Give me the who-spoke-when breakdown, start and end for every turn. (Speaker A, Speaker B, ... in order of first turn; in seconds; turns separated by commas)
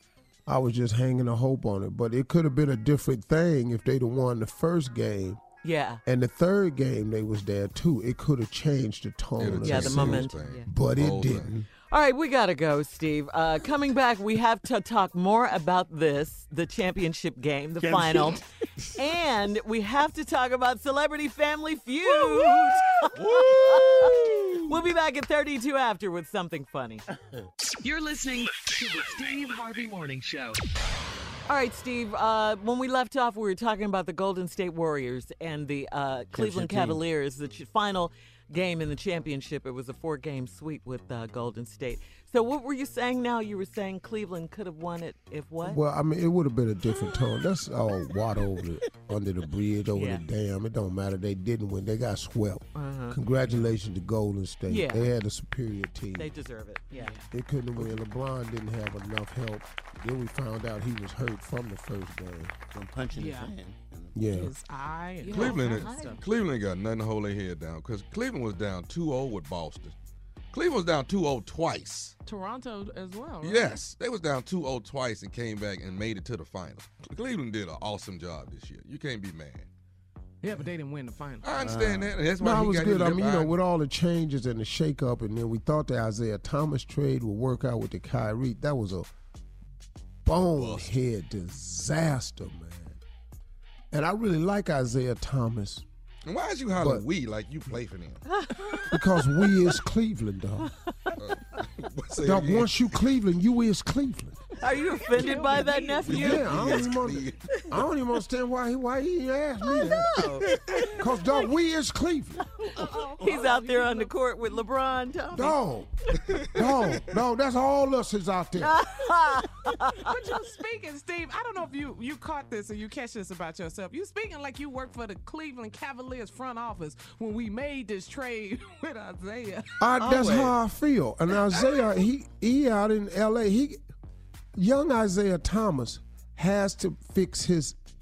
Speaker A: 0.5-5.4, Speaker B: 5.6-6.0, Speaker A: 6.0-11.7, Speaker C: 9.4-11.5, Speaker B: 9.6-10.7, Speaker B: 11.9-18.4, Speaker D: 17.8-18.4, Speaker B: 18.9-27.0, Speaker C: 23.1-24.6, Speaker E: 27.8-30.6, Speaker B: 31.5-45.8, Speaker A: 36.3-37.0, Speaker A: 45.6-56.3, Speaker B: 49.9-50.2, Speaker B: 52.7-53.2, Speaker B: 54.7-55.1, Speaker B: 56.1-57.2, Speaker F: 56.9-57.9, Speaker A: 57.3-62.5, Speaker D: 62.7-64.2, Speaker F: 63.1-63.5, Speaker A: 64.1-64.5, Speaker F: 64.3-66.2, Speaker B: 65.2-66.2, Speaker C: 65.3-69.9, Speaker C: 70.5-72.1, Speaker F: 72.2-73.8, Speaker C: 73.4-79.7, Speaker F: 80.4-81.5, Speaker C: 81.4-83.5, Speaker D: 81.6-82.2, Speaker A: 82.4-89.1, Speaker A: 90.2-93.0, Speaker C: 90.3-90.9, Speaker A: 93.9-95.8, Speaker C: 96.2-98.2, Speaker A: 96.8-97.0, Speaker B: 98.2-98.8, Speaker A: 98.9-100.7, Speaker C: 101.2-102.8, Speaker A: 102.2-104.4, Speaker B: 104.6-106.7, Speaker F: 104.8-106.4, Speaker C: 106.0-107.4, Speaker A: 106.1-110.2, Speaker B: 109.7-110.6, Speaker A: 111.0-112.4, Speaker F: 112.7-114.1, Speaker D: 112.8-113.3, Speaker B: 112.8-115.6, Speaker A: 115.3-115.9, Speaker A: 116.5-118.8, Speaker B: 118.6-120.1, Speaker F: 119.9-129.8, Speaker A: 129.8-133.8, Speaker B: 130.0-130.6, Speaker A: 134.6-137.8